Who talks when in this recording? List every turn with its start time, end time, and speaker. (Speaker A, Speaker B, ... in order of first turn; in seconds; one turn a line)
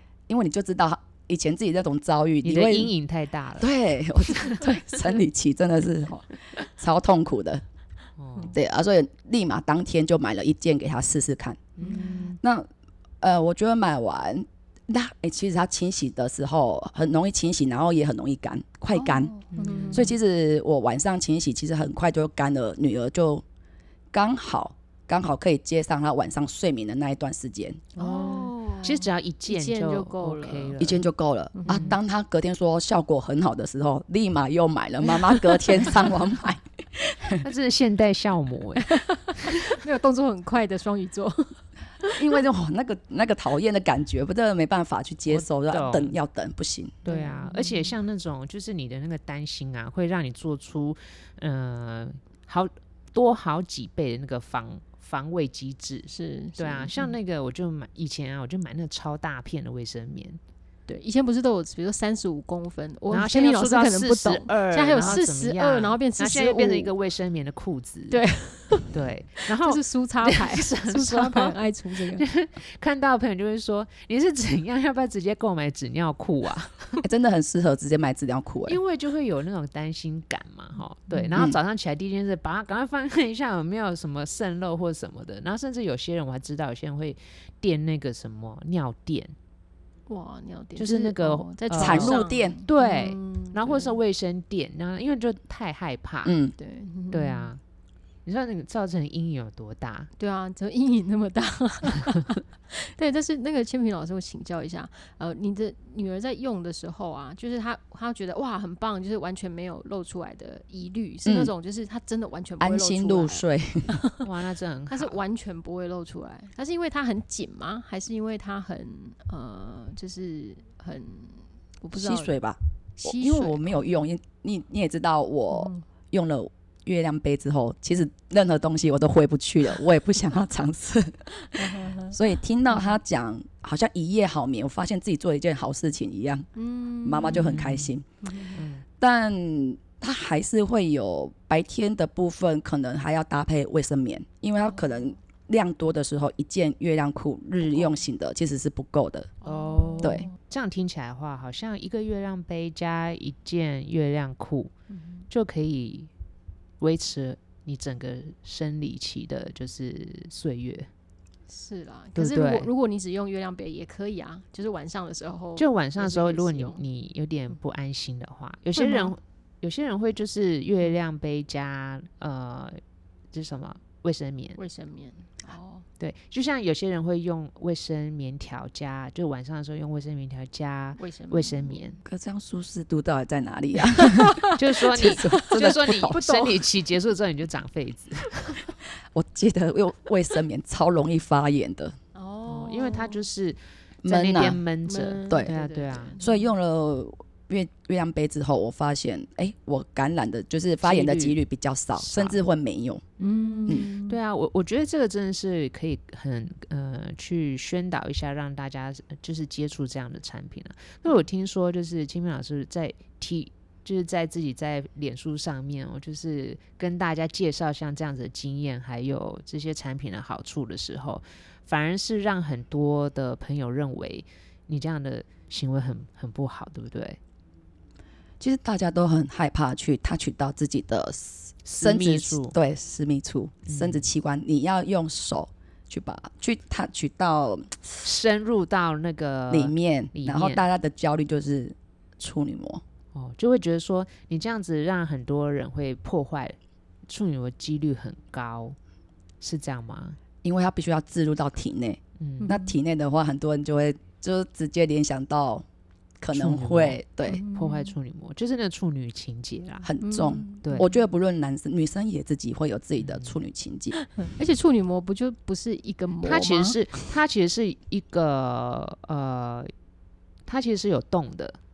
Speaker A: 0.3-2.9
Speaker B: 2.4-3.7
Speaker A: 3.6-7.6
Speaker B: 8.2-8.6
Speaker A: 8.5-11.8
Speaker B: 11.8-12.3
Speaker C: 11.8-12.4
Speaker A: 12.4-12.7
Speaker A: 13.2-19.3
Speaker C: 18.9-20.1
Speaker B: 19.5-20.1
Speaker A: 19.9-23.4
Speaker A: 24.1-27.8
Speaker C: 27.9-30.9
Speaker B: 28.0-31.0
Speaker A: 30.8-37.4
Speaker C: 31.5-31.9
Speaker B: 31.7-32.0
Speaker C: 35.3-35.9
Speaker B: 37.4-39.0
Speaker C: 38.9-42.2
Speaker A: 42.1-47.0
Speaker B: 45.3-46.1
Speaker C: 47.0-47.9
Speaker B: 47.0-60.4
Speaker C: 56.1-57.1
Speaker C: 60.9-66.9
Speaker B: 63.1-68.2
Speaker C: 68.1-68.9
Speaker B: 68.8-77.0
Speaker C: 69.5-72.2
Speaker A: 77.0-78.8
Speaker B: 78.7-89.3
Speaker C: 81.1-81.4
Speaker C: 90.1-93.9
Speaker B: 90.8-96.4
Speaker A: 91.8-92.6
Speaker A: 96.2-96.5
Speaker C: 96.6-97.5
Speaker B: 97.1-97.6
Speaker B: 98.2-100.1
Speaker C: 100.2-114.2
Speaker A: 111.2-111.5
Speaker A: 112.6-114.0
Speaker B: 114.2-115.2
Speaker C: 114.9-122.3
Speaker A: 121.9-136.5
Speaker C: 123.0-123.7
Speaker C: 125.5-125.8
Speaker C: 131.5-132.2
Speaker C: 132.7-132.9
Speaker C: 136.6-137.5
Speaker A: 137.0-138.0
Speaker B: 137.3-137.9
Speaker C: 138.2-138.6
Speaker B: 138.5-138.8
Speaker A: 139.0-149.3
Speaker C: 149.4-150.3
Speaker B: 149.4-154.7
Speaker A: 150.0-150.3
Speaker C: 154.9-155.2
Speaker B: 155.3-156.1
Speaker B: 156.8-160.9
Speaker C: 161.5-166.8
Speaker B: 162.1-162.7
Speaker B: 165.6-172.8
Speaker C: 168.8-169.1
Speaker B: 173.3-174.6
Speaker C: 174.6-175.8
Speaker B: 176.0-182.0
Speaker C: 181.0-181.8
Speaker A: 182.1-186.6
Speaker C: 184.2-185.5
Speaker B: 184.6-188.6
Speaker A: 189.1-191.9
Speaker C: 192.1-193.2
Speaker B: 192.5-196.1
Speaker A: 194.0-194.6
Speaker C: 194.8-196.4
Speaker A: 196.2-203.0
Speaker B: 200.8-201.4
Speaker B: 201.9-202.4
Speaker C: 203.2-204.2
Speaker B: 203.5-227.2
Speaker A: 228.4-238.0
Speaker B: 231.6-232.6
Speaker B: 233.7-234.0
Speaker B: 238.0-240.6
Speaker A: 239.5-242.8
Speaker B: 243.1-246.6
Speaker B: 247.1-248.8
Speaker B: 249.4-250.2
Speaker A: 250.4-255.6
Speaker B: 252.2-252.5
Speaker C: 252.4-252.7
Speaker A: 256.2-257.4
Speaker B: 256.3-259.9
Speaker C: 257.2-257.9
Speaker A: 259.8-263.9
Speaker C: 260.0-260.9
Speaker B: 263.0-263.4
Speaker C: 263.9-267.1
Speaker B: 266.2-269.7
Speaker B: 270.5-271.6